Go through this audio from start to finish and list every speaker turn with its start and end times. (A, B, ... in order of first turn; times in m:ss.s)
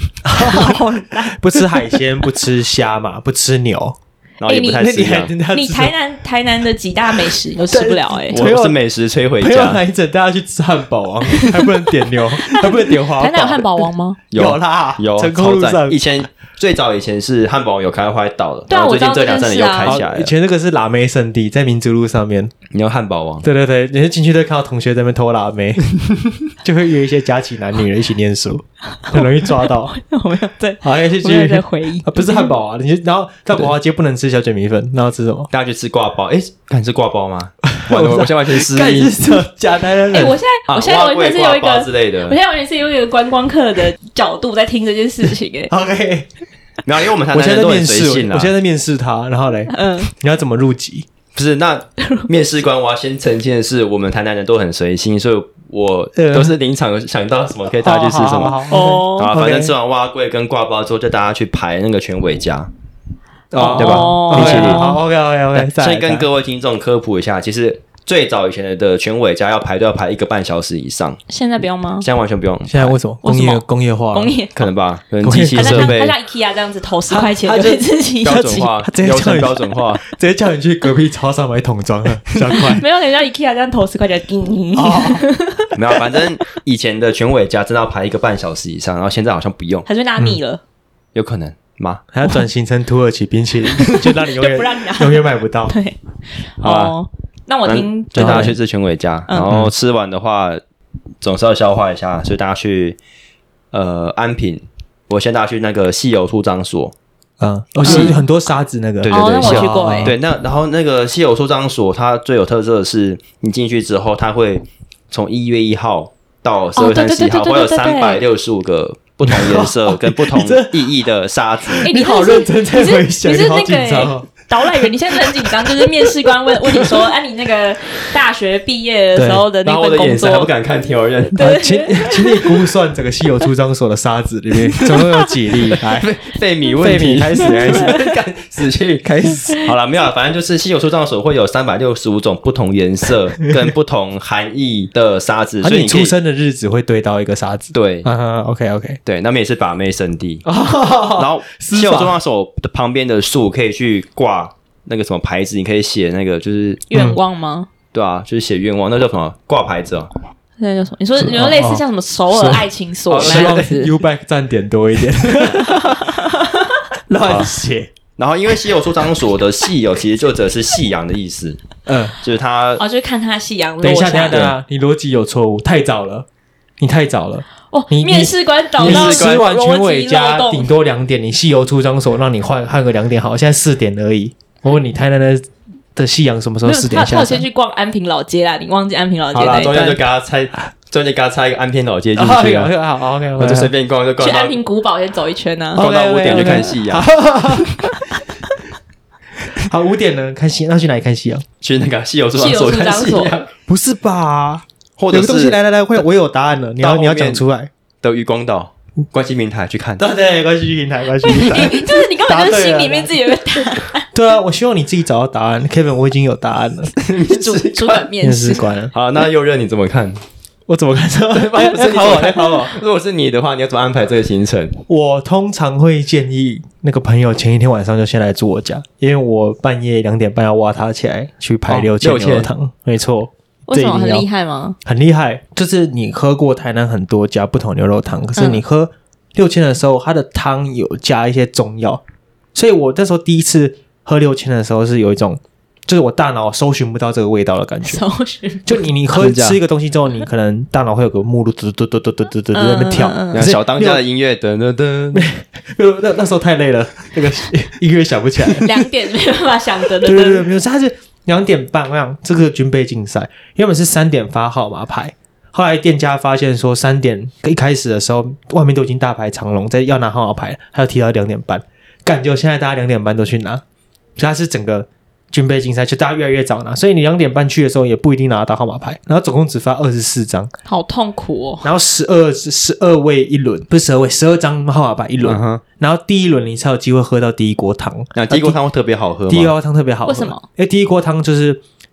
0:00.2-0:04.0 A
0:00.4-0:01.8 B
0:04.4-0:05.3 C
0:04.4-0:04.8 B
0:04.8-0:05.9 A
0:05.5-0:08.4 B
0:07.7-0:08.8 A
0:08.3-0:09.8 C
0:09.4-0:16.0 A
0:11.3-0:14.2 B
0:14.3-0:20.3 C
0:18.7-0:20.0 B
0:19.8-0:22.5 A
0:22.7-0:23.4 C
0:23.4-0:25.9 A
0:26.5-0:29.9 A
0:29.0-0:32.5 B
0:30.8-0:35.5 A
0:35.5-0:39.2 C
0:37.7-0:40.4 A
0:40.1-0:45.7 B
0:40.7-0:42.4 C
0:45.7-0:46.3 A
0:46.8-0:48.5 C
0:47.3-0:51.1 A
0:49.7-0:50.1 B
0:51.4-1:02.7 C
0:52.0-0:52.3 B
0:56.2-0:56.5 A
0:57.8-0:59.7 A
0:58.7-0:59.4 B
1:03.5-1:06.3 A
1:03.6-1:05.0 B
1:03.7-1:04.9 C
1:05.5-1:11.2 C
1:11.3-1:12.1 B
1:12.0-1:13.0 C
1:12.7-1:14.3 A
1:13.2-1:14.6 B
1:14.6-1:16.2 C
1:15.2-1:15.9 A
1:15.6-1:18.7 B
1:17.1-1:22.8 A
1:18.2-1:20.0 C
1:22.5-1:25.7 B
1:24.8-1:25.2 A
1:25.8-1:29.9 C
1:29.9-1:30.6 B
1:31.2-1:32.0 C
1:32.1-1:35.8 A
1:34.4-1:38.6 B
1:36.6-1:37.0 C
1:37.7-1:40.6 C
1:38.2-1:38.6 A
1:39.3-1:39.6 B
1:41.2-1:43.0 C
1:43.7-1:46.9 C
1:47.4-1:50.2 A
1:47.8-1:48.2 C
1:47.8-1:48.2 B
1:49.0-2:01.9 C
1:49.1-1:50.1 B
1:56.8-1:58.2 B
1:59.2-2:01.0 A
2:01.7-2:06.3 A
2:01.8-2:10.5 B
2:09.2-2:09.5 A
2:09.6-2:11.6 C
2:11.3-2:12.6 B
2:11.4-2:16.1 A
2:15.7-2:26.1 C
2:16.8-2:18.1 A
2:19.0-2:19.6 A
2:25.6-2:29.0 A
2:27.7-2:28.1 C
2:29.1-2:30.5 C
2:30.4-2:32.2 A
2:31.1-2:36.8 C
2:36.9-2:37.7 B
2:36.9-2:37.2 A
2:37.9-2:40.1 C
2:40.6-2:43.9 B
2:41.2-2:42.7 A
2:43.1-2:43.7 C
2:43.2-2:46.3 A
2:45.7-2:46.8 B
2:47.1-2:47.9 A
2:47.3-2:47.5 C
2:48.2-2:51.6 C
2:51.9-2:52.2 A
2:52.2-2:52.8 C
2:52.8-2:54.4 B
2:53.8-2:56.3 A
2:56.8-3:07.5 A
2:57.7-3:00.7 B
2:58.8-2:59.4 C
3:06.6-3:10.0 B
3:09.3-3:12.7 C
3:12.2-3:13.7 A
3:13.4-3:14.6 C
3:14.2-3:16.4 B
3:15.8-3:18.0 A
3:15.8-3:17.1 C
3:19.6-3:21.4 A
3:21.6-3:23.5 C
3:22.4-3:23.4 B
3:23.7-3:27.7 A
3:25.0-3:25.6 C
3:26.8-3:27.4 C
3:28.0-3:30.0 C
3:30.0-3:33.2 A
3:31.2-3:34.1 B
3:34.1-3:36.9 A
3:37.0-3:38.1 C
3:37.2-3:38.7 B
3:38.2-3:38.9 A
3:38.9-3:40.2 C
3:40.7-3:42.8 A
3:41.3-3:44.8 C
3:44.9-3:54.3 A
3:51.7-3:52.5 C
3:53.7-3:54.8 B
3:54.8-4:02.0 A
3:58.4-3:58.6 B
4:02.6-4:08.0 A
4:07.8-4:08.8 B
4:08.7-4:14.0 A
4:09.1-4:09.6 C
4:12.5-4:13.5 B
4:13.3-4:15.3 C
4:15.1-4:18.8 A
4:18.5-4:20.5 B
4:20.0-4:33.6 A
4:34.2-4:40.5 A
4:40.7-4:41.7 B
4:41.6-4:48.6 A
4:45.2-4:45.6 C
4:48.2-4:49.5 C
4:49.3-4:51.6 A
4:50.1-4:50.4 B